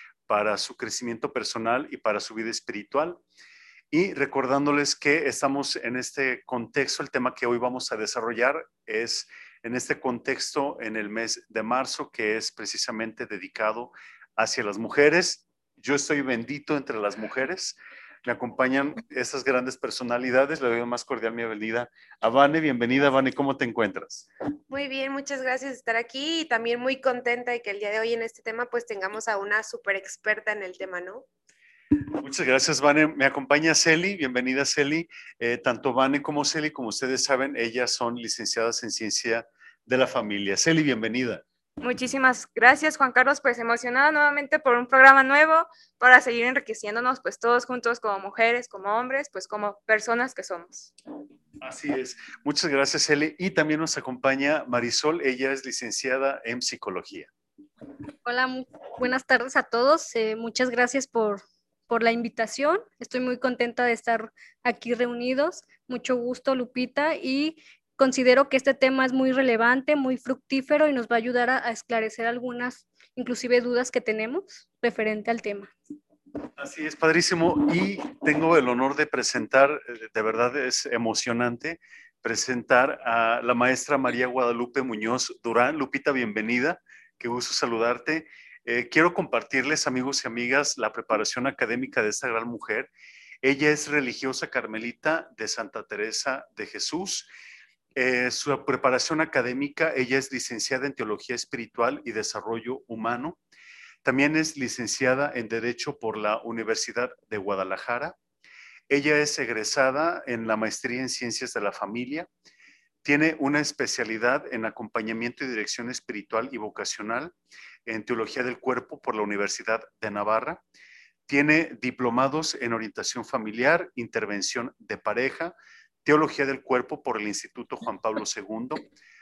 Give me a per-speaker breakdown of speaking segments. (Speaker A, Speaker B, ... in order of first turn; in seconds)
Speaker A: 0.3-3.2, 3.9-24.3, 32.2-41.4, 51.6-57.3, 76.6-92.9, 93.4-97.3, 98.0-103.4, 104.0-108.2, 108.9-112.3, 113.0-117.3, 117.9-120.6, 121.3-128.8
Speaker B: 24.7-31.3
Speaker C: 41.8-50.9
Speaker D: 58.2-75.7